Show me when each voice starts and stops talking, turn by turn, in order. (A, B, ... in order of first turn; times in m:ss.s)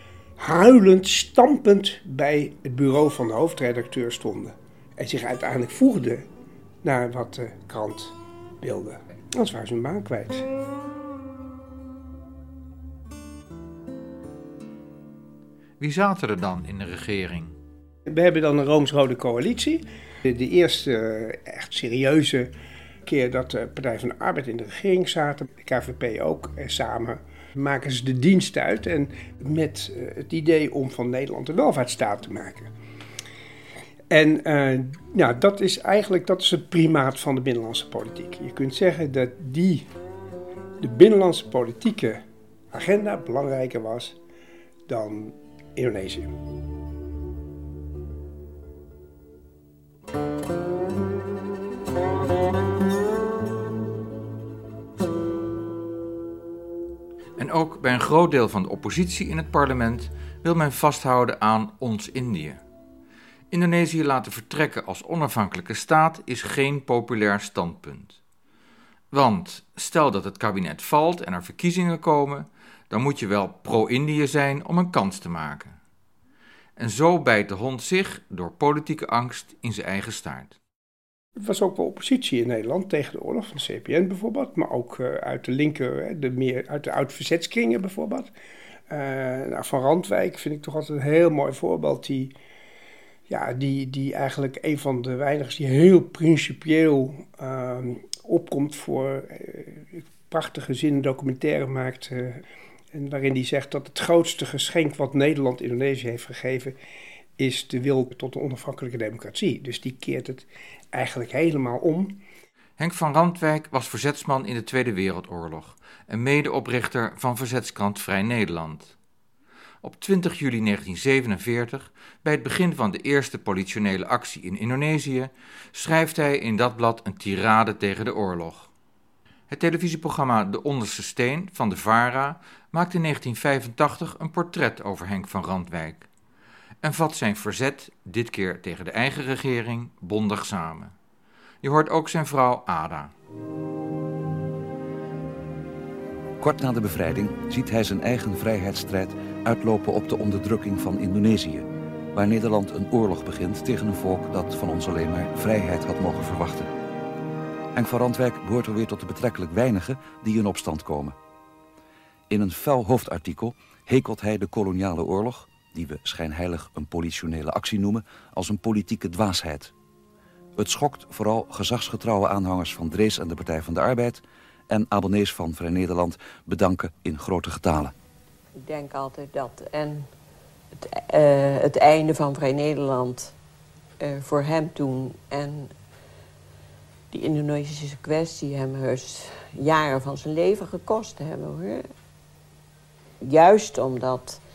0:00.4-0:06.3 A
0:06.8-0:10.4 A
0:15.8-0:17.6 B
0:18.1-0:22.5 A
0:23.1-0:32.7 A
0:34.1-0:39.9 A
0:40.8-0:44.2 A
0:44.9-0:46.3 A
0:57.4-1:02.6 B
1:03.5-1:08.2 B
1:09.1-1:15.8 B
1:16.8-1:20.6 B
1:21.4-1:28.3 A
1:28.9-1:32.3 A
1:33.3-1:42.4 A
1:42.9-1:46.8 A
1:47.4-1:52.2 A
1:52.8-1:59.0 B
1:59.8-2:08.7 B
2:09.5-2:16.1 B
2:16.8-2:20.9 B
2:21.6-2:23.1 B
2:26.4-2:36.7 C
2:37.8-2:41.2 C
2:42.3-2:49.7 C
2:50.6-2:57.9 C
2:58.6-3:00.1 D
3:00.8-3:03.4 D
3:04.0-3:05.8 D
3:07.1-3:11.9 D
3:13.2-3:14.4 D